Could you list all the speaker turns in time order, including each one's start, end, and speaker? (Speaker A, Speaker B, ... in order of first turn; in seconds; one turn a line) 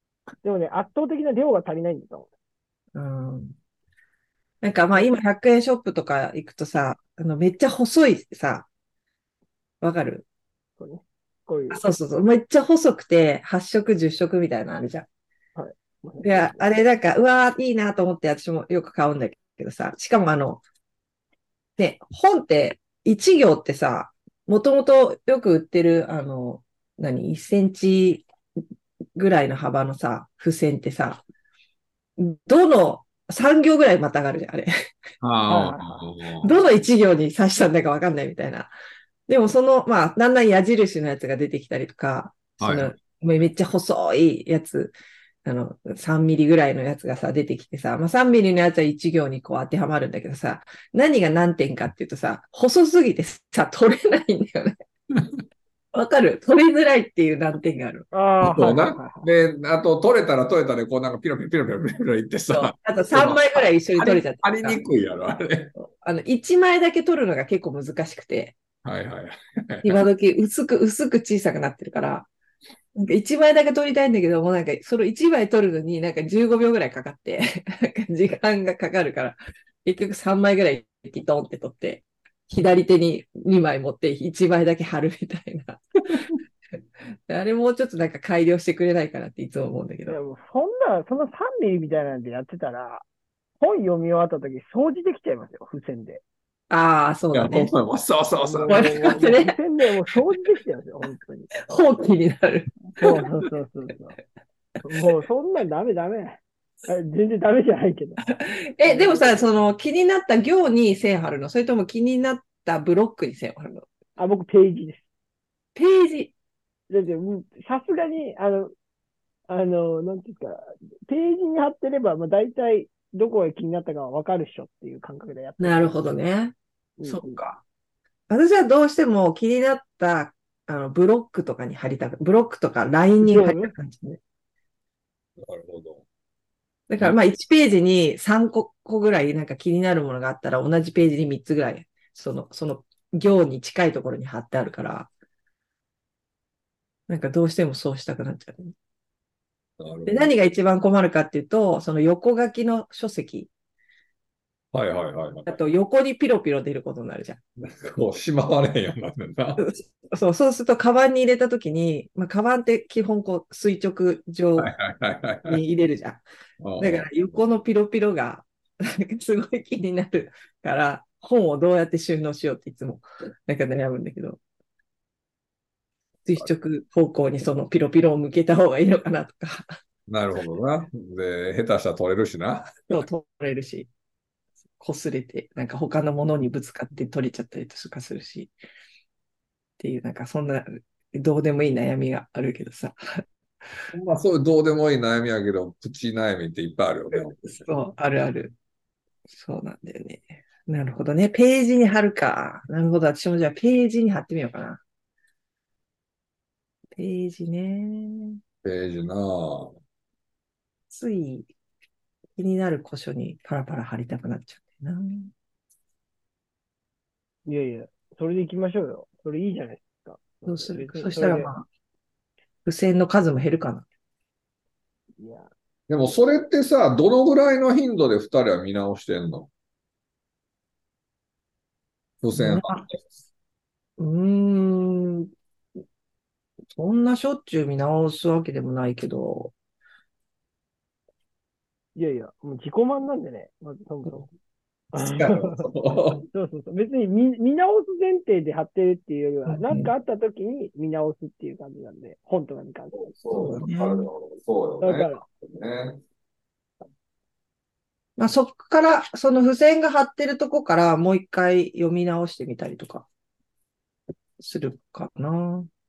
Speaker A: 0.4-2.3
Speaker B: 3.0-3.6
Speaker B: 4.6-8.7
Speaker B: 9.8-10.2
Speaker A: 10.8-11.8
Speaker B: 11.7-15.1
Speaker A: 15.5-16.7
Speaker B: 16.2-20.6
Speaker B: 21.8-28.2
Speaker B: 29.1-31.2
Speaker B: 32.2-34.7
Speaker C: 35.2-36.6
Speaker A: 35.5-36.0
Speaker B: 36.4-38.7
Speaker B: 39.3-54.8
Speaker C: 42.6-42.9
Speaker B: 55.9-58.1
Speaker A: 58.1-59.3
Speaker C: 58.4-65.7
Speaker B: 62.5-64.8
Speaker B: 65.8-68.6
Speaker C: 68.8-70.0
Speaker B: 69.8-72.3
Speaker B: 73.0-86.2
Speaker B: 87.3-90.2
Speaker A: 90.1-93.0
Speaker A: 93.6-96.2
Speaker B: 96.7-97.7
Speaker C: 97.3-99.2
Speaker A: 98.4-101.5
Speaker B: 98.7-99.6
Speaker B: 101.6-102.7
Speaker A: 102.9-104.2
Speaker A: 104.8-108.3
Speaker B: 108.3-113.9
Speaker A: 108.8-109.5
Speaker A: 114.2-115.1
Speaker B: 115.8-116.3
Speaker A: 116.9-118.7
Speaker A: 119.5-126.0
Speaker B: 125.6-126.5
Speaker A: 127.0-127.4
Speaker B: 127.1-127.6
Speaker B: 128.3-134.2
Speaker A: 133.2-133.7
Speaker C: 135.4-136.0
Speaker B: 136.9-145.1
Speaker B: 147.1-148.8
Speaker C: 149.8-150.4
Speaker B: 150.1-153.5
Speaker C: 154.7-155.6
Speaker B: 155.5-157.4
Speaker C: 157.6-159.6
Speaker B: 159.6-164.7
Speaker C: 164.6-165.6
Speaker B: 165.5-166.2
Speaker C: 166.6-167.2
Speaker B: 166.8-174.4
Speaker B: 176.2-179.8
Speaker C: 180.1-183.1
Speaker B: 182.9-183.9
Speaker B: 184.8-188.5
Speaker B: 189.8-193.2
Speaker C: 193.9-197.6
Speaker B: 197.2-198.5
Speaker B: 199.3-204.8
Speaker B: 206.9-208.4
Speaker C: 208.6-209.8
Speaker B: 210.9-211.5
Speaker B: 212.4-215.3
Speaker A: 217.5-221.5
Speaker B: 220.5-221.7
Speaker B: 222.7-223.8
Speaker A: 225.2-225.5
Speaker C: 225.9-229.5
Speaker C: 232.2-233.2
Speaker B: 232.3-232.8
Speaker B: 234.0-235.3
Speaker B: 236.7-239.5
Speaker A: 242.0-244.3
Speaker A: 244.9-245.7
Speaker C: 245.0-246.3
Speaker A: 246.3-253.0
Speaker B: 249.5-249.9
Speaker C: 252.9-256.0
Speaker B: 253.3-254.1
Speaker A: 254.8-255.2
Speaker B: 258.2-263.1
Speaker B: 264.4-265.7